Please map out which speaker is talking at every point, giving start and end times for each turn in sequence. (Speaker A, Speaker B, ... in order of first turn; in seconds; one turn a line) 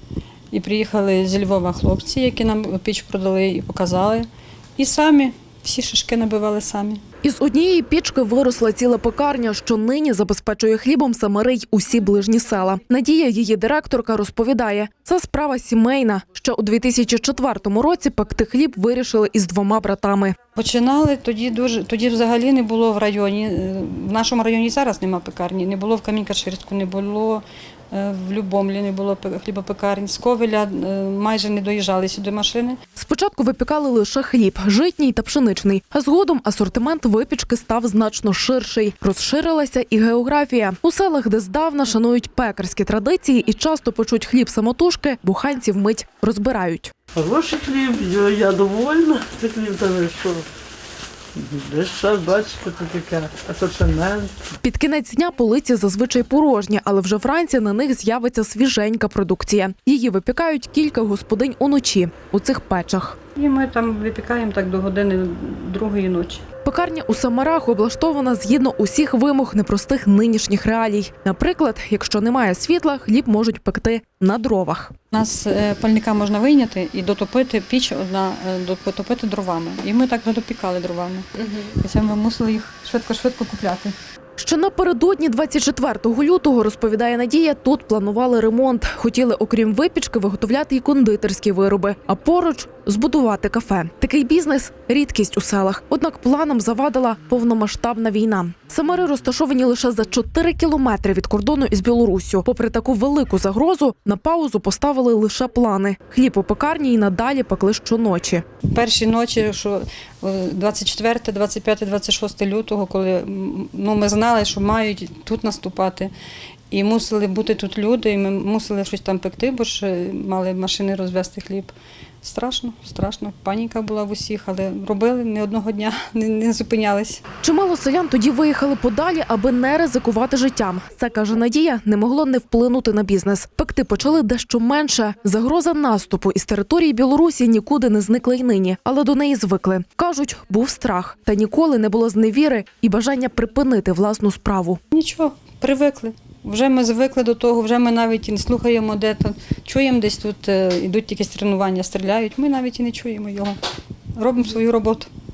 Speaker A: 0.5-7.0
Speaker B: 7.2-20.3
Speaker A: 20.6-32.8
Speaker B: 33.0-46.9
Speaker C: 47.1-50.4
Speaker C: 51.3-54.3
Speaker B: 54.6-63.2
Speaker A: 63.4-66.4
Speaker B: 66.6-74.9
Speaker A: 75.1-83.9
Speaker B: 84.4-108.4
Speaker A: 108.7-116.1
Speaker A: 116.7-127.2
Speaker B: 127.4-144.8
Speaker A: 144.9-153.6
Speaker A: 154.2-155.1